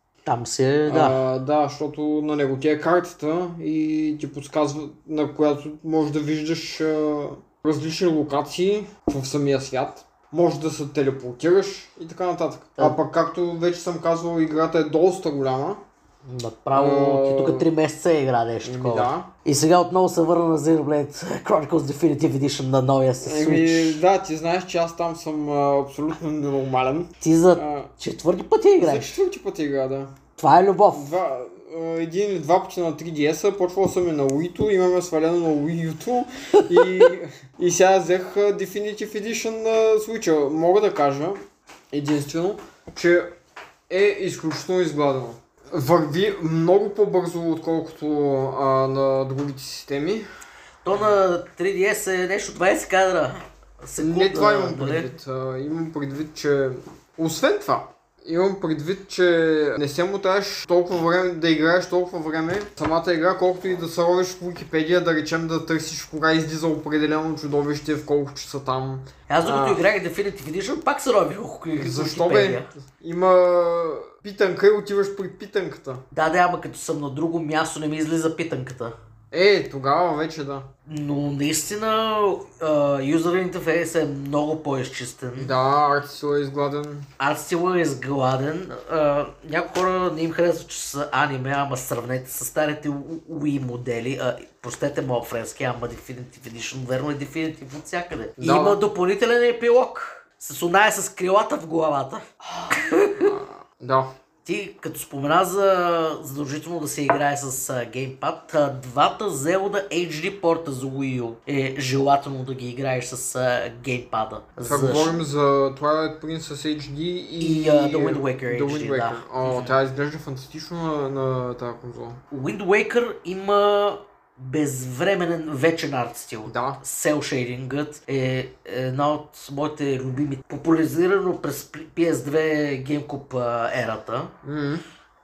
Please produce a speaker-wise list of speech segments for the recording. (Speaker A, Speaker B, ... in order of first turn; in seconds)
Speaker A: 0.2-1.2, 16.2-24.0, 27.2-29.2, 30.4-31.2, 36.6-37.1, 50.8-55.1, 69.3-72.7, 76.1-79.0, 80.9-85.5, 87.2-103.4, 104.5-115.2, 117.4-119.8, 122.3-134.3
Speaker B: 0.9-15.8, 16.7-17.7, 18.6-19.3, 23.2-27.9, 28.8-30.1, 30.9-43.3, 43.9-50.3, 54.0-69.8, 71.8-76.0, 79.3-80.7, 85.4-87.1, 98.4-98.8, 103.2-104.1, 114.6-122.2, 126.5-126.8, 134.4-134.8